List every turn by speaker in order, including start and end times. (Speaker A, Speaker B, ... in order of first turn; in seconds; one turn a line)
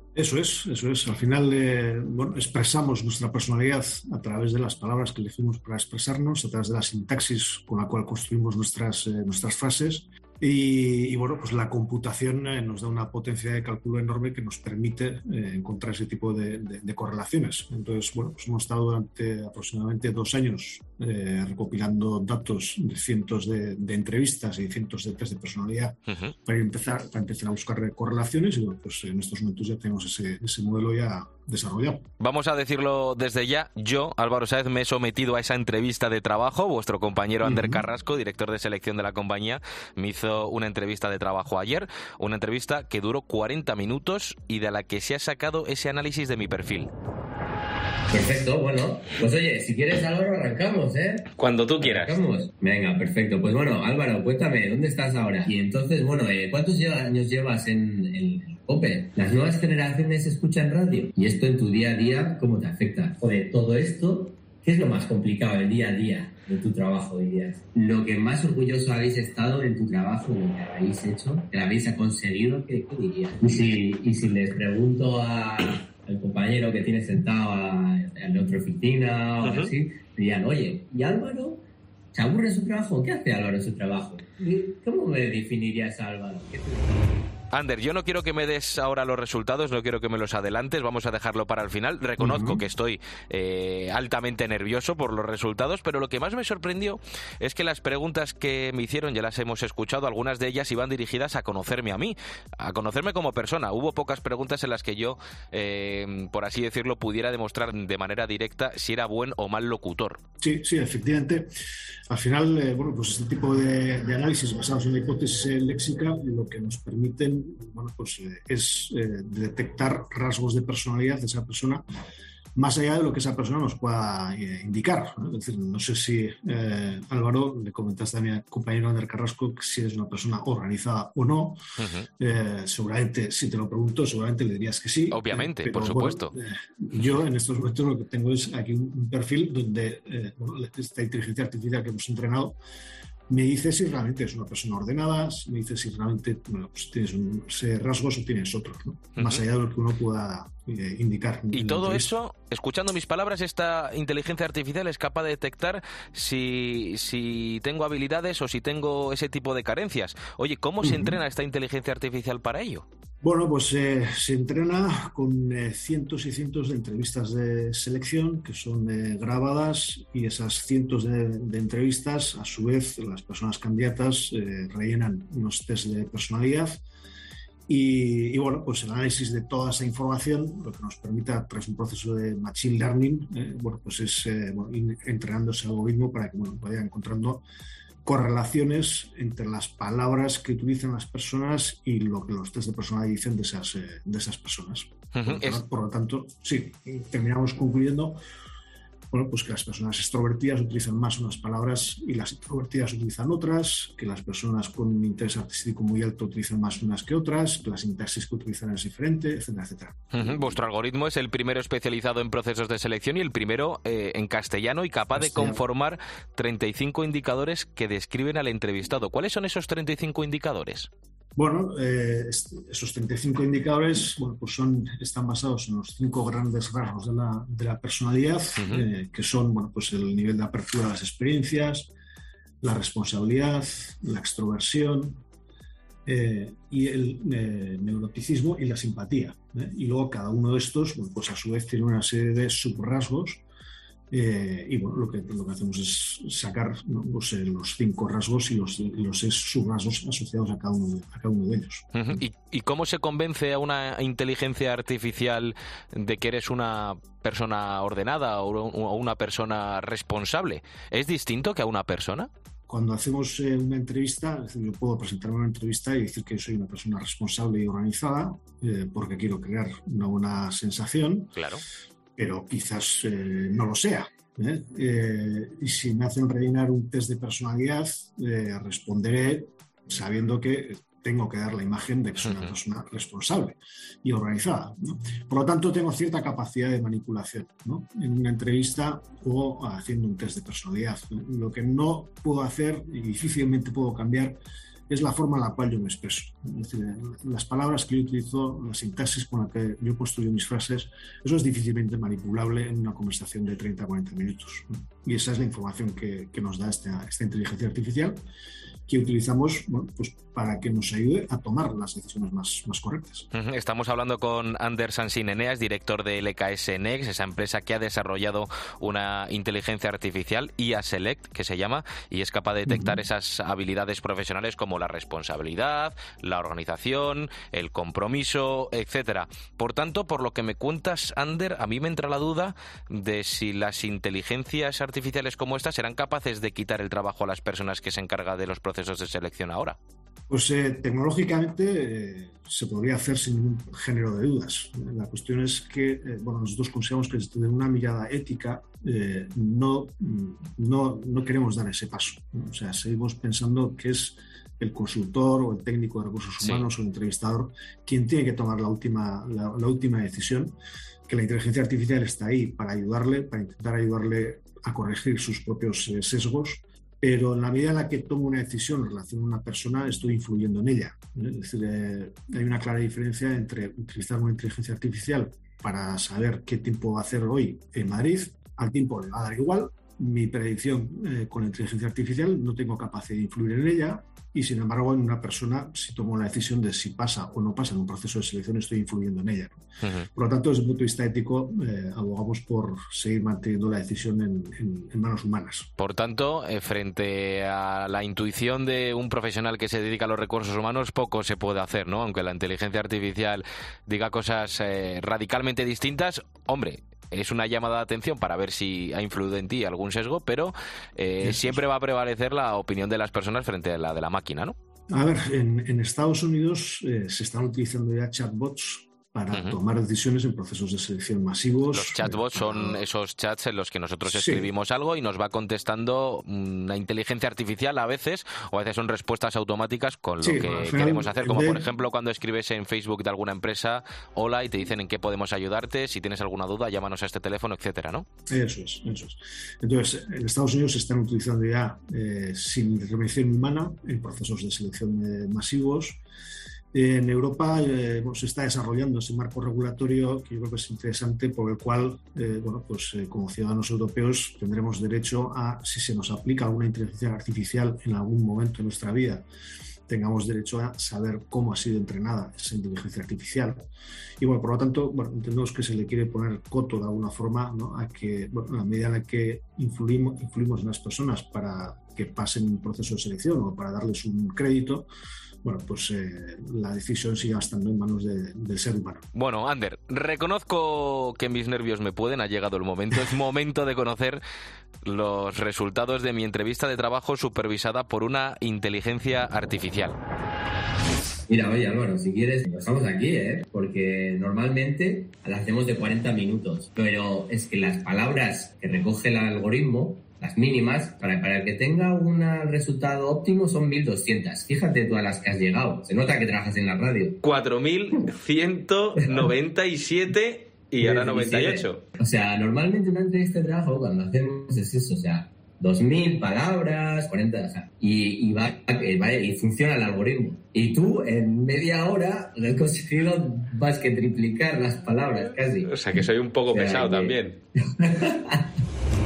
Speaker A: 0.1-32.0
Speaker B: 26.1-26.3
Speaker B: 32.2-46.9
Speaker A: 37.4-37.8
Speaker C: 48.1-81.6
Speaker B: 51.3-52.2
Speaker B: 79.4-79.7
Speaker C: 82.1-87.1
Speaker B: 87.5-110.2
Speaker A: 92.2-92.6
Speaker A: 110.4-111.5
Speaker A: 112.1-121.8
Speaker A: 122.6-131.6
Speaker B: 131.8-132.1
Speaker A: 132.2-142.6
Speaker B: 135.1-136.3
Speaker A: 143.3-152.1
Speaker B: 149.2-149.4
Speaker B: 151.5-162.9
Speaker A: 160.8-161.2
Speaker A: 163.2-176.8
Speaker A: 177.7-187.4
Speaker A: 188.1-198.2
Speaker B: 195.1-195.6
Speaker A: 199.1-210.6
Speaker B: 210.1-220.9
Speaker A: 215.2-215.6
Speaker A: 221.4-231.9
Speaker B: 228.6-228.9
Speaker A: 232.6-235.2
Speaker A: 236.1-243.4
Speaker A: 244.1-251.9
Speaker B: 251.9-262.3
Speaker A: 262.7-271.4
Speaker B: 271.4-271.6
Speaker A: 272.2-308.2
Speaker B: 282.2-282.5
Speaker A: 308.9-313.3
Speaker B: 313.3-339.8
Speaker A: 322.7-323.0
Speaker A: 340.3-360.6
Speaker B: 356.4-356.7
Speaker A: 361.1-395.7
Speaker B: 389.8-390.1
Speaker B: 395.8-414.6
Speaker A: 411.2-411.6
Speaker A: 414.9-422.8
Speaker B: 419.3-419.6
Speaker B: 421.7-438.1
Speaker A: 424.1-424.5
Speaker A: 430.2-431.7
Speaker A: 438.3-446.0
Speaker A: 446.7-459.3
Speaker A: 459.9-463.7
Speaker A: 464.2-474.9
Speaker A: 475.4-479.1
Speaker B: 479.1-484.2
Speaker B: 484.8-490.0
Speaker C: 491.3-507.2
Speaker B: 507.2-511.8
Speaker C: 510.8-525.8
Speaker B: 525.6-527.4
Speaker C: 526.5-528.4